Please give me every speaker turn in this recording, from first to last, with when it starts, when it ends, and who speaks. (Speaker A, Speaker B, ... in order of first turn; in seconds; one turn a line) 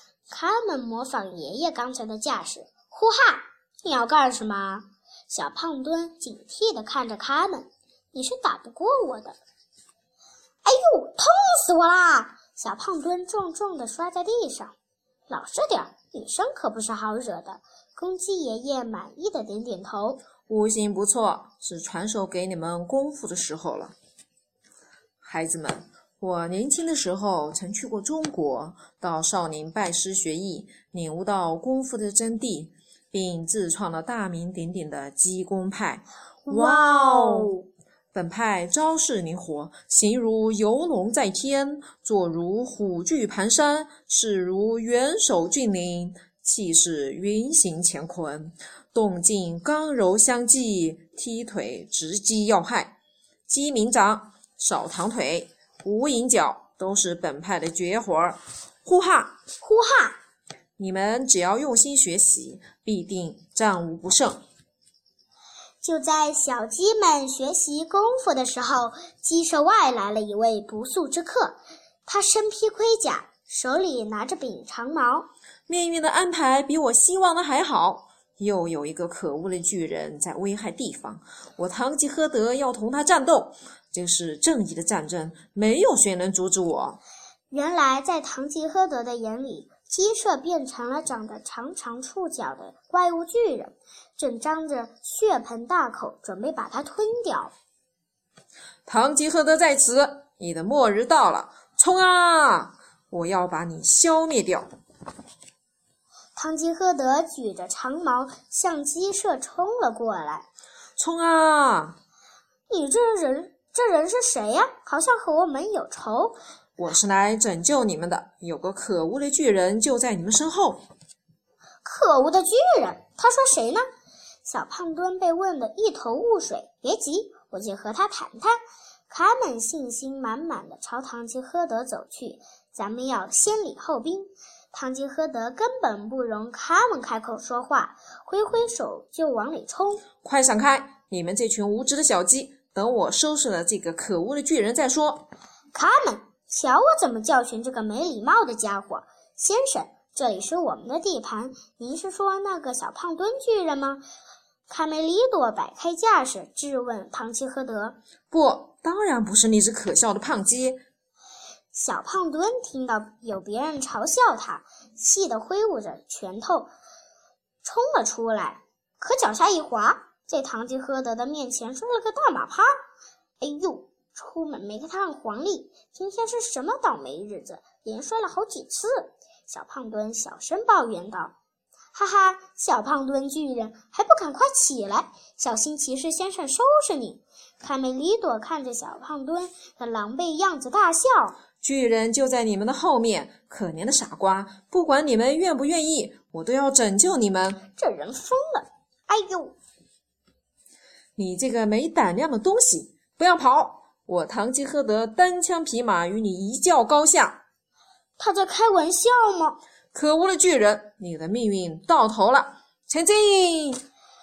Speaker A: 0.3-9.4
Speaker A: 10.6-14.7
Speaker A: 15.3-20.2
Speaker B: 20.5-23.9
Speaker B: 25.2-37.5
Speaker A: 36.5-37.6
Speaker B: 38.1-52.9
Speaker B: 53.5-59.4
Speaker A: 59.6-60.2
Speaker B: 60.8-64.4
Speaker A: 65.8-75.3
Speaker B: 75.7-87.0
Speaker A: 87.5-97.5
Speaker B: 98.8-104.7
Speaker A: 106.3-110.5
Speaker B: 111.0-112.0
Speaker A: 112.7-116.3
Speaker B: 116.8-120.8
Speaker A: 121.8-123.8
Speaker A: 124.4-128.5
Speaker A: 129.1-140.0
Speaker B: 140.2-145.3
Speaker A: 145.7-154.0
Speaker A: 154.7-158.0
Speaker B: 158.3-160.8
Speaker A: 161.7-166.7
Speaker A: 167.6-172.7
Speaker A: 173.4-181.3
Speaker A: 181.9-191.4
Speaker B: 191.6-197.6
Speaker A: 197.8-199.6
Speaker B: 201.2-207.4
Speaker A: 208.2-209.6
Speaker B: 209.9-213.8